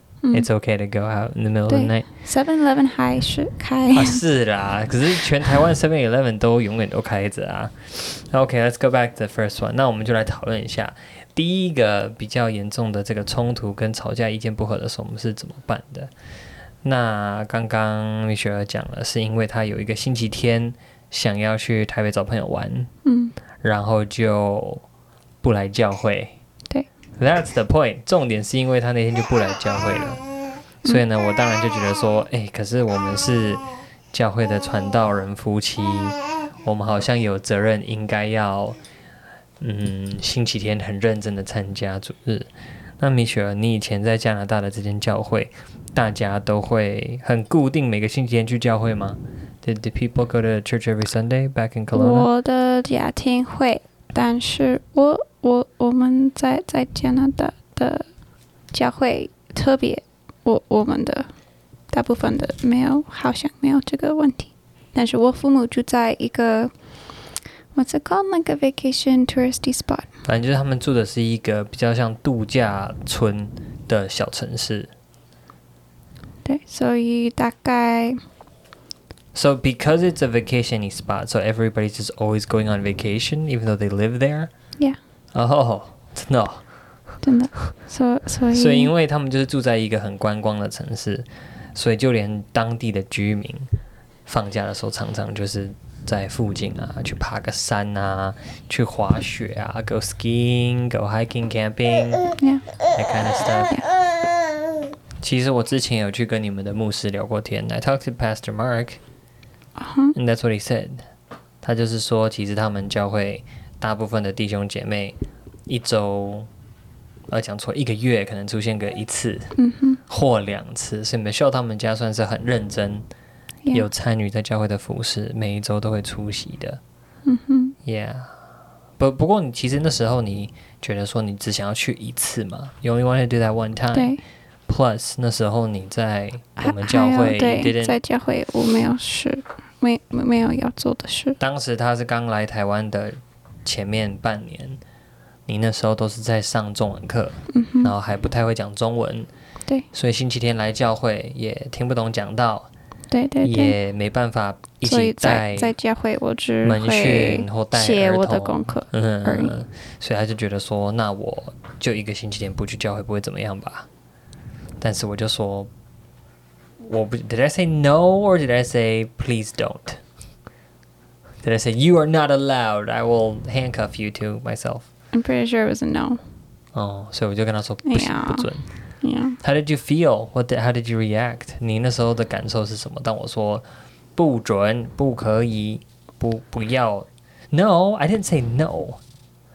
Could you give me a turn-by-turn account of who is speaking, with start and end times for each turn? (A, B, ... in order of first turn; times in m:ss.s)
0:00.3-0:02.1 A
0:01.7-0:04.2 B
0:03.9-0:16.1 A
0:16.8-0:22.9 A
0:23.0-0:23.4 B
0:23.6-0:24.8 A
0:25.4-0:26.4 A
0:27.2-0:30.2 A
0:30.8-0:38.8 A
0:39.6-0:52.3 A
0:51.9-0:58.1 B
0:58.7-1:01.3 B
1:01.9-1:06.7 B
1:07.7-1:10.1 B
1:10.2-1:14.9 A
1:16.4-1:18.2 B
1:19.3-1:24.5 A
1:25.3-1:26.6 A
1:27.2-1:28.9 B
1:28.5-1:33.7 A
1:34.3-1:42.4 A
1:42.9-1:43.9 A
1:45.2-1:49.0 A
1:49.8-1:50.2 B
1:50.1-1:51.1 A
1:51.6-1:56.5 A
1:57.3-1:59.5 A
1:59.6-2:00.0 B
2:00.1-2:03.1 A
2:03.7-2:06.8 A
2:07.2-2:07.8 B
2:07.8-2:08.4 A
2:09.0-2:14.2 A
2:13.9-2:14.2 B
2:14.7-2:18.0 A
2:16.6-2:21.4 B
2:21.4-2:24.8 A
2:25.5-2:29.3 A
2:27.5-2:27.9 B
2:29.9-2:32.7 A
2:33.1-2:33.8 B
2:33.4-2:35.7 A
2:34.8-2:39.5 B
2:36.6-2:43.9 A
2:44.8-2:45.7 A
2:46.8-2:50.0 A
2:51.4-2:54.9 A
2:55.1-2:56.2 B
2:56.8-2:58.7 A
2:57.8-2:59.4 B
2:59.4-3:03.6 A
3:04.2-3:09.0 A